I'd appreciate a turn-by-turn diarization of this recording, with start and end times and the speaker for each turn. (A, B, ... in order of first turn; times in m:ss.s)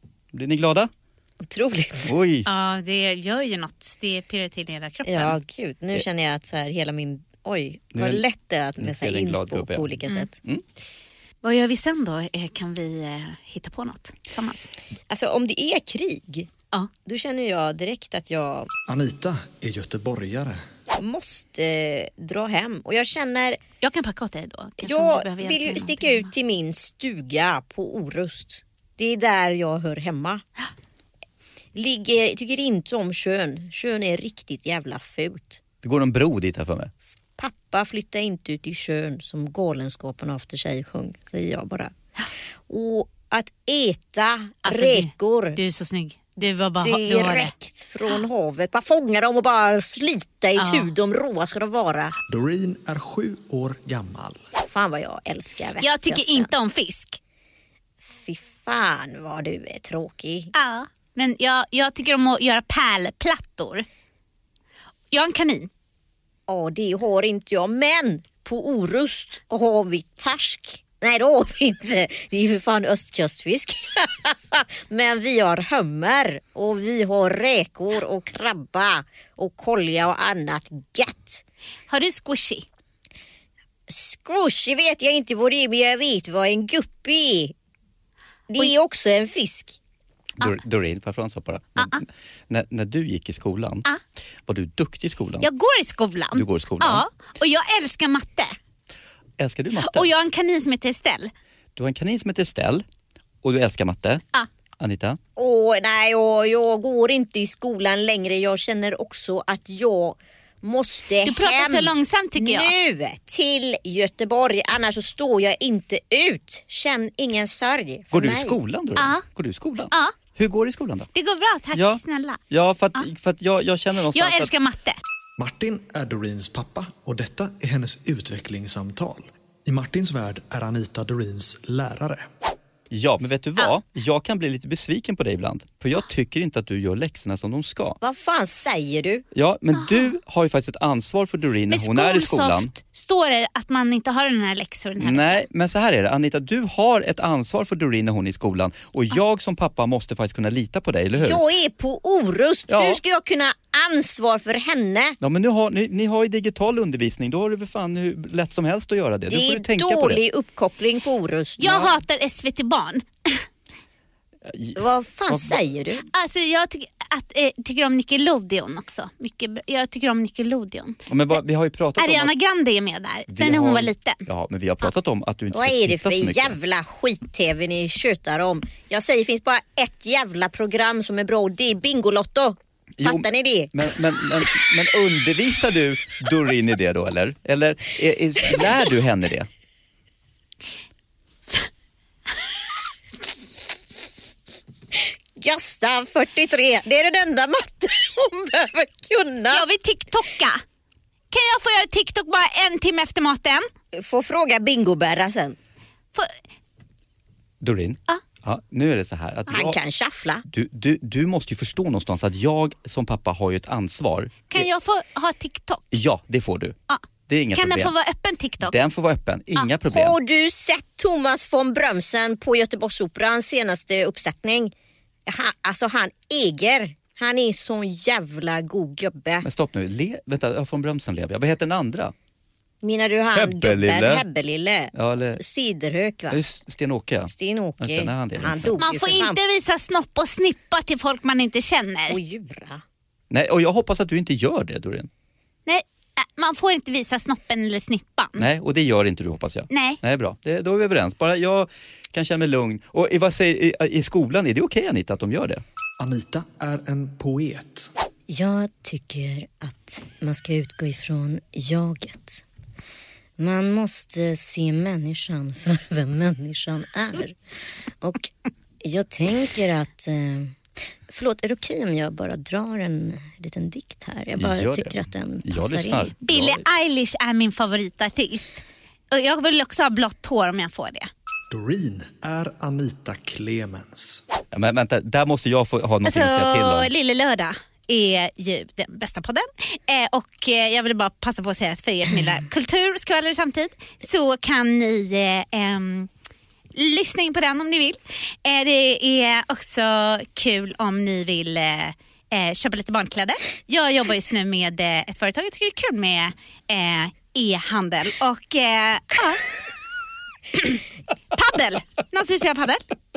0:00.3-0:00.9 A
0:01.4-0:02.1 B
0:02.0-0:02.5 A
0:02.4-0:05.4 C
0:05.0-0:10.3 B
0:07.9-0:08.2 A
0:08.8-0:10.6 A
0:11.4-0:14.7 C
0:15.1-0:16.5 B
0:17.0-0:18.7 B
0:18.9-0:20.6 D
0:20.9-0:23.6 B
0:23.8-0:26.3 C
0:24.8-0:30.4 B
0:31.7-0:35.6 B
0:35.8-0:36.9 A
0:37.4-0:41.9 B
0:42.7-0:45.6 B
0:44.6-0:47.5 C
0:46.8-0:52.2 B
0:50.6-0:50.9 C
0:52.3-0:54.4 D
0:54.6-0:56.5 B
0:55.8-0:57.2 C
0:58.0-1:00.5 B
1:00.5-1:03.8 C
1:05.1-1:05.7 C
1:06.5-1:21.4 B
1:21.9-1:22.7 C
1:23.9-1:27.5 B
1:28.5-1:29.8 B
1:30.4-1:33.9 A
1:31.8-1:32.0 C
1:34.5-1:35.5 A
1:35.4-1:38.5 C
1:36.3-1:37.0 A
1:39.4-1:40.1 A
1:39.8-1:41.3 C
1:41.8-1:42.8 A
1:43.4-1:44.2 A
1:44.8-1:45.2 A
1:45.4-1:58.6 B
1:51.2-1:52.7 C
1:58.1-2:01.1 A
1:59.0-1:59.2 C
2:01.1-2:02.4 C
2:01.7-2:04.5 A
2:04.1-2:05.0 C
2:05.4-2:12.3 D
2:12.9-2:18.0 A
2:18.0-2:19.2 B
2:19.3-2:22.7 A
2:19.7-2:20.1 C
2:21.7-2:25.4 C
2:25.0-2:31.4 A
2:31.2-2:35.2 B
2:32.7-2:33.0 A
2:35.2-2:40.2 A
2:39.3-2:42.0 B
2:41.6-2:43.4 C
2:44.4-2:45.6 A
2:44.8-2:46.0 B
2:46.1-2:51.0 C
2:51.1-2:52.3 A
2:52.0-2:54.2 C
2:53.3-2:56.6 A
2:55.5-3:04.4 B
3:03.0-3:09.5 A
3:15.4-3:19.7 B
3:19.5-3:20.6 C
3:21.3-3:23.7 C
3:23.9-3:25.6 B
3:27.6-3:29.8 A
3:29.5-3:30.4 B
3:30.5-3:34.7 A
3:34.5-3:35.9 C
3:35.9-3:36.8 A
3:36.9-3:38.8 C
3:37.3-3:37.9 A
3:38.6-3:40.2 A
3:39.9-3:44.7 B
3:45.2-3:49.5 B
3:49.4-3:52.1 A
3:52.8-3:56.4 B
3:53.3-3:54.2 A
3:54.9-3:55.4 A
3:56.3-3:58.8 A
3:57.3-3:59.4 B
3:58.8-4:02.2 C
4:02.1-4:02.8 B
4:03.3-4:05.1 A
4:05.6-4:08.4 C
4:08.4-4:15.6 A
4:09.7-4:10.0 C
4:16.0-4:17.9 D
4:18.3-4:22.4 B
4:23.4-4:27.4 B
4:28.0-4:30.6 B
4:31.1-4:36.1 B
4:34.4-4:36.6 A
4:36.2-4:41.1 C
4:41.5-4:44.2 D
4:44.5-4:46.9 A
4:46.0-4:56.1 C
4:56.7-5:09.4 C
5:10.5-5:10.8 C
5:11.3-5:12.8 C